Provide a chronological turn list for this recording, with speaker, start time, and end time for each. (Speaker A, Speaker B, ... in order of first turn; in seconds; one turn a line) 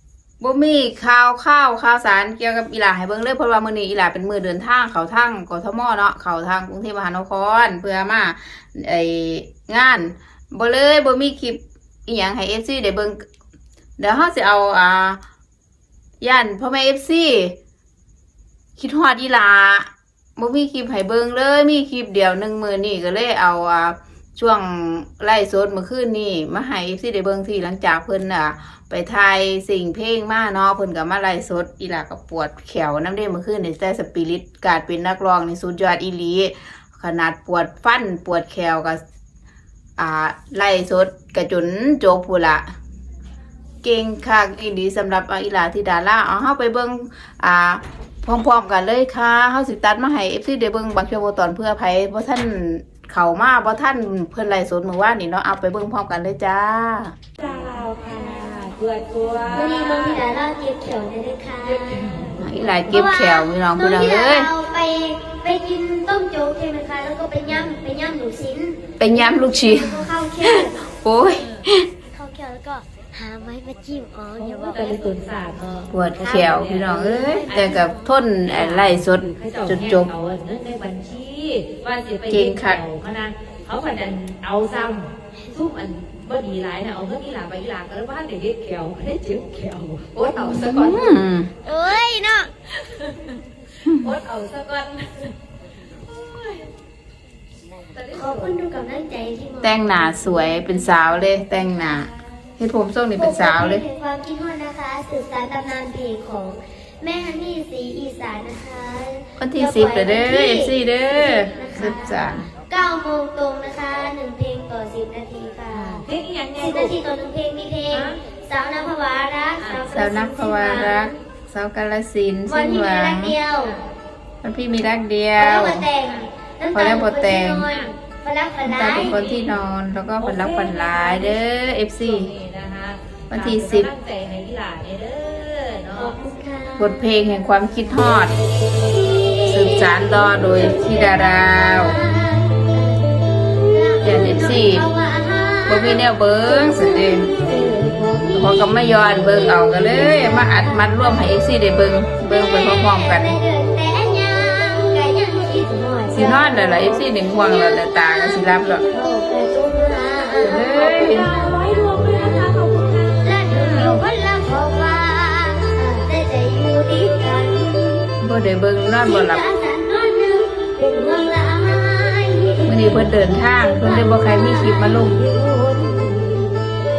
Speaker A: 0.4-13.2
Speaker A: 14.0-15.2
Speaker A: 16.2-17.5
Speaker A: 18.8-39.0
Speaker A: 40.0-42.6
Speaker A: 43.8-57.1
Speaker B: 57.4-60.2
Speaker C: 59.5-62.2
Speaker B: 61.7-62.8
Speaker A: 62.4-64.5
Speaker C: 62.9-70.8
Speaker A: 69.0-71.9
Speaker B: 71.3-71.7
Speaker C: 72.1-75.1
Speaker B: 74.4-77.9
Speaker A: 75.9-80.1
Speaker C: 76.2-76.5
Speaker C: 77.2-77.8
Speaker B: 78.5-91.2
Speaker A: 82.3-82.8
Speaker A: 90.5-91.5
Speaker C: 91.6-92.5
Speaker B: 92.7-95.3
Speaker B: 97.9-98.5
Speaker C: 98.1-100.7
Speaker A: 99.6-103.8
Speaker B: 100.8-102.2
Speaker C: 103.2-121.2
Speaker A: 109.4-112.4
Speaker B: 115.8-117.0
Speaker B: 117.9-118.2
Speaker B: 119.6-120.0
Speaker A: 119.9-123.4
Speaker C: 122.5-123.8
Speaker A: 124.4-125.9
Speaker C: 125.4-129.1
Speaker A: 126.7-127.7
Speaker A: 128.6-132.3
Speaker B: 128.9-129.4
Speaker B: 130.2-131.4
Speaker B: 132.0-136.2
Speaker A: 133.3-133.9
Speaker C: 135.9-137.0
Speaker A: 136.8-138.3
Speaker C: 138.7-151.3
Speaker A: 139.5-141.9
Speaker A: 144.0-144.8
Speaker A: 145.7-147.3
Speaker A: 148.3-153.3
Speaker C: 152.2-156.7
Speaker A: 156.1-158.8
Speaker C: 157.2-162.4
Speaker A: 160.4-161.3
Speaker B: 160.7-163.9
Speaker C: 163.2-168.1
Speaker A: 168.2-169.4
Speaker C: 169.0-176.7
Speaker A: 172.7-175.2